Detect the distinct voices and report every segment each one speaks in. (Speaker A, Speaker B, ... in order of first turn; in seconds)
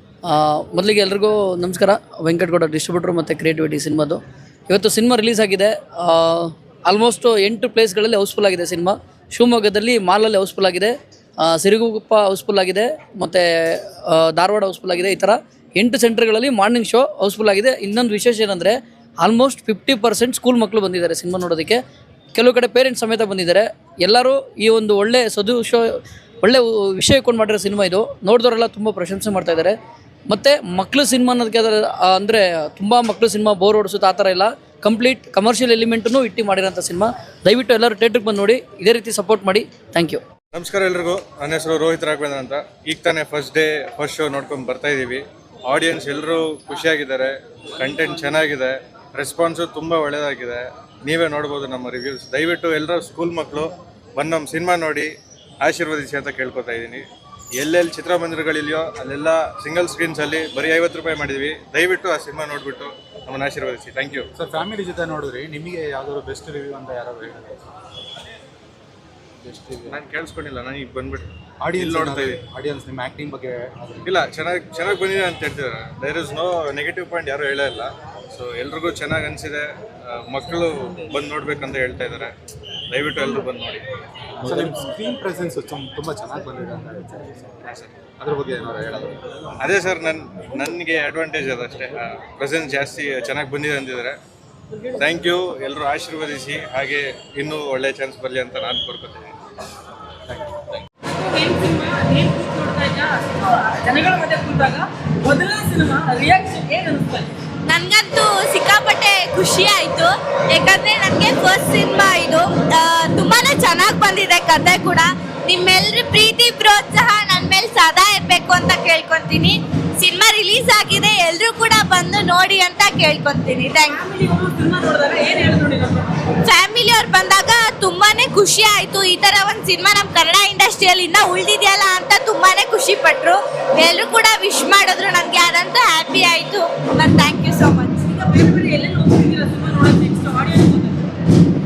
Speaker A: 0.2-21.8, 22.3-29.7, 30.3-40.2
Speaker B: 40.5-55.1, 55.6-57.0, 57.6-64.3, 69.9-72.4, 74.0-82.3, 82.9-83.8, 87.6-87.9, 89.6-94.2, 95.0-99.3
Speaker C: 64.3-67.7, 71.6-74.1, 84.4-87.5, 88.2-89.2
Speaker D: 101.1-107.3, 123.9-126.2, 138.1-141.0
Speaker E: 107.7-124.0, 126.5-138.1